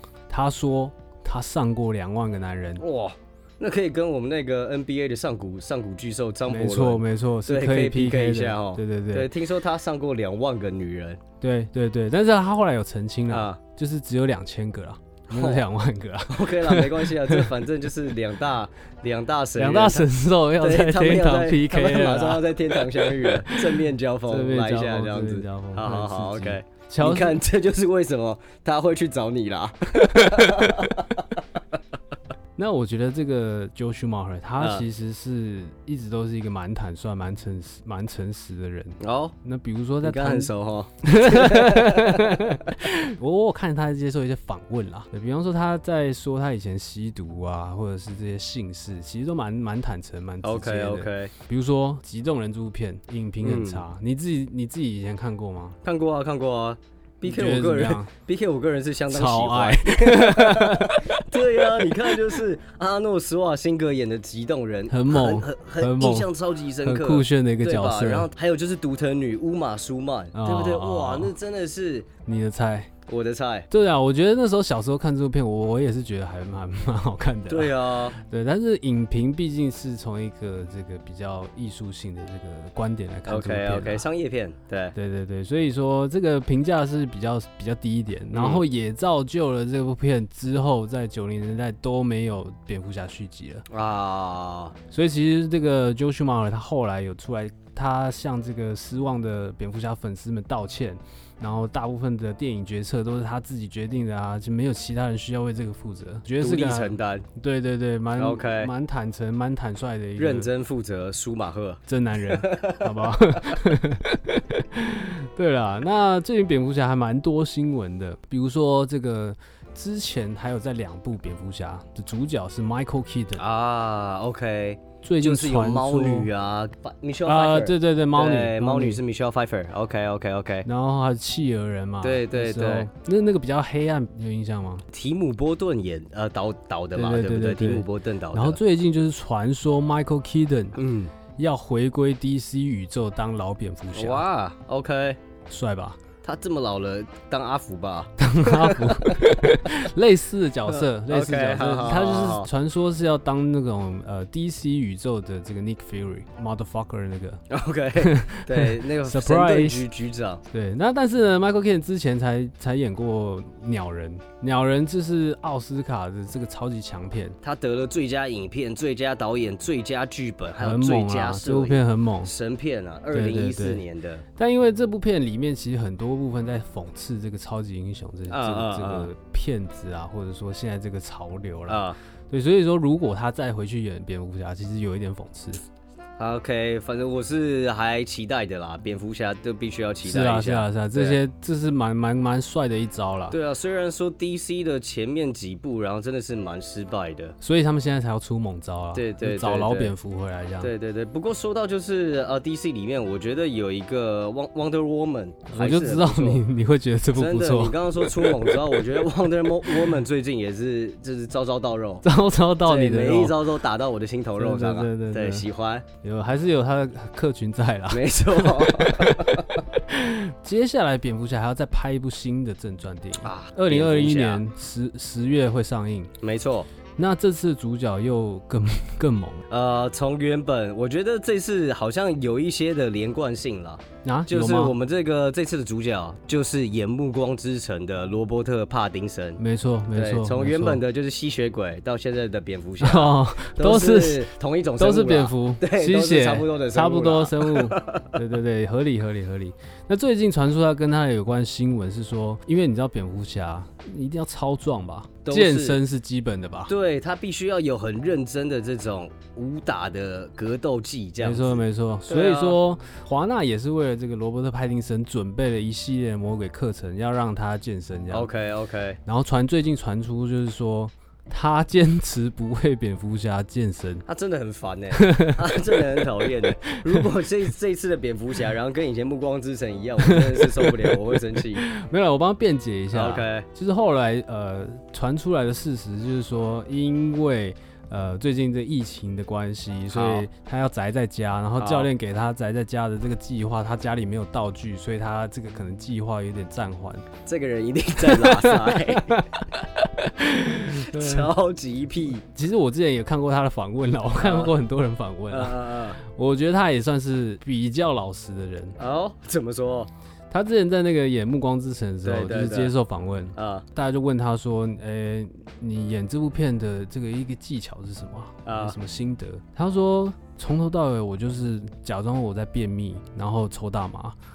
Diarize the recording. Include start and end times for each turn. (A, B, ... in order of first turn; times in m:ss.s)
0:00.3-0:02.8 A
0:02.8-0:11.2 B
0:06.5-0:09.3 A
0:11.4-0:17.5 A
0:13.3-0:13.6 B
0:15.3-0:15.6 B
0:16.3-0:31.4 B
0:19.6-0:23.6 A
0:24.3-0:27.4 A
0:32.6-0:40.5 A
0:34.6-0:34.8 B
0:39.0-0:39.4 B
0:40.0-0:42.6 B
0:41.0-0:55.8 A
0:50.4-0:51.3 B
0:53.4-0:53.8 B
0:55.8-1:12.1 B
0:57.2-0:58.1 A
0:59.1-1:02.2 A
1:04.9-1:06.3 A
1:06.8-1:08.3 A
1:10.3-1:11.3 A
1:12.2-1:12.9 A
1:13.1-1:13.7 B
1:13.7-1:24.1 A
1:17.5-1:18.2 B
1:23.3-1:25.0 B
1:25.0-1:33.7 A
1:28.3-1:28.6 B
1:33.7-1:34.8 B
1:34.9-1:50.5 A
1:46.4-1:47.3 B
1:48.2-1:48.7 B
1:50.2-1:52.9 B
1:51.9-2:03.4 A
2:03.4-2:10.7 B
2:05.0-2:06.3 A
2:07.2-2:09.0 A
2:10.6-2:14.9 A
2:12.0-2:12.9 B
2:14.9-2:18.6 B
2:17.0-2:20.8 A
2:20.8-2:21.1 B
2:21.4-2:24.2 A
2:23.9-2:25.2 B
2:25.5-2:26.0 A
2:26.2-2:29.7 B
2:28.2-2:37.4 A
2:30.7-2:32.5 B
2:37.5-2:40.4 B
2:38.0-2:39.8 A
2:40.5-2:47.4 A
2:47.4-2:54.2 B
2:50.6-2:52.3 A
2:53.1-2:53.8 A
2:54.4-3:05.6 A
2:58.3-2:59.1 B
3:01.7-3:02.0 B
3:06.2-3:11.2 B
3:10.0-3:13.4 A
3:13.3-3:17.4 B
3:17.4-3:20.7 A
3:18.9-3:19.9 B
3:20.6-3:26.4 B
3:25.5-3:28.8 A
3:27.2-3:32.0 B
3:32.0-3:33.4 A
3:32.7-3:35.9 B
3:34.4-3:35.5 A
3:36.0-3:46.1 A
3:37.9-3:39.6 B
3:43.2-3:44.4 B
3:46.2-3:46.7 B
3:47.0-3:49.4 A
3:49.5-3:59.4 B
3:54.0-3:54.8 A
3:59.4-4:00.8 A
3:59.9-4:08.1 B
4:02.8-4:16.7 A
4:15.2-4:15.8 B
4:16.7-4:22.6 B
4:21.2-4:28.3 A
4:28.1-4:29.0 B
4:29.0-4:34.0 A
4:34.1-4:41.7 B
4:35.0-4:36.0 A
4:36.7-4:37.0 A
4:40.0-4:41.0 A
4:41.6-4:57.1 A
4:42.9-4:43.5 B
4:49.9-4:50.3 B
4:51.6-4:51.9 B
4:57.3-4:59.2 B
4:58.0-5:01.3 A
5:00.8-5:02.2 B
5:02.3-5:08.8 A
5:04.2-5:04.5 B
5:05.3-5:06.0 B
5:08.8-5:09.9 B
5:10.3-5:24.2 A
5:12.0-5:12.7 B
5:13.4-5:13.7 B
5:18.5-5:18.8 B